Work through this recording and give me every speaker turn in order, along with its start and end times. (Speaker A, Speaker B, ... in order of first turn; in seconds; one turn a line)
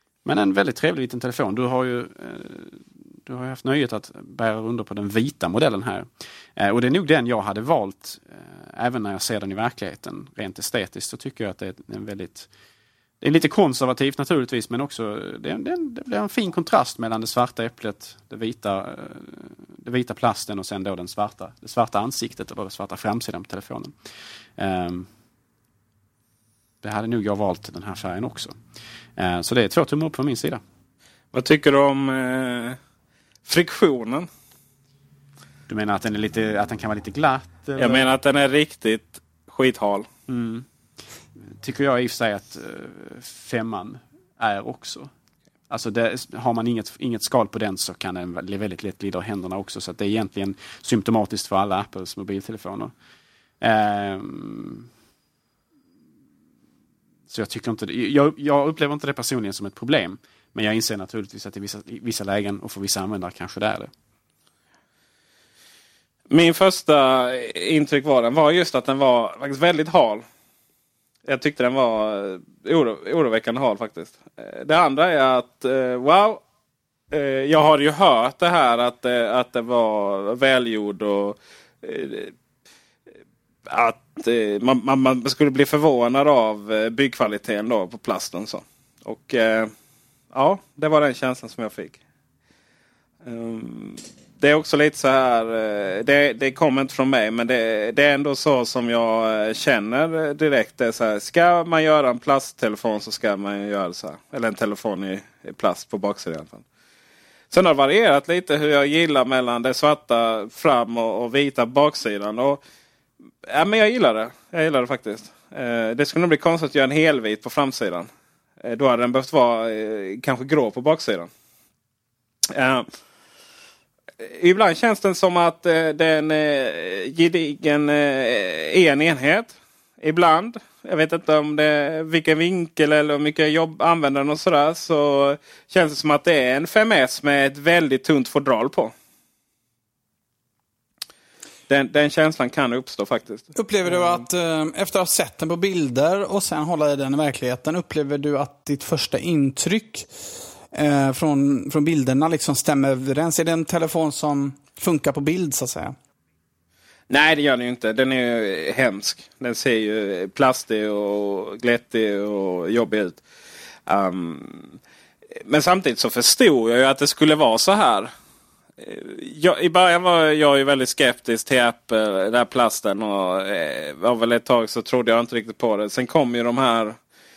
Speaker A: 0.2-12.5
Speaker A: 13.2-24.0
Speaker A: 24.6-25.1
Speaker A: 26.8-28.6
Speaker A: 29.2-30.6
Speaker B: 31.3-32.8
Speaker B: 33.5-34.3
Speaker A: 35.7-38.1
Speaker B: 37.8-40.1
Speaker A: 40.3-40.7
Speaker A: 41.4-45.1
Speaker A: 45.7-52.9
Speaker A: 53.6-54.9
Speaker A: 57.3-63.9
Speaker B: 66.3-70.2
Speaker B: 71.3-76.4
Speaker B: 77.1-82.3
Speaker B: 83.7-89.7
Speaker B: 90.3-92.0
Speaker B: 93.2-106.6
Speaker B: 107.5-112.6
Speaker B: 113.5-118.1
Speaker B: 118.6-121.3
Speaker B: 122.5-122.9
Speaker B: 124.2-138.9
Speaker B: 141.7-144.1
Speaker C: 143.6-150.1
Speaker C: 150.7-155.9
Speaker B: 157.1-163.2
Speaker B: 163.9-164.8
Speaker B: 165.5-168.1
Speaker B: 168.8-177.0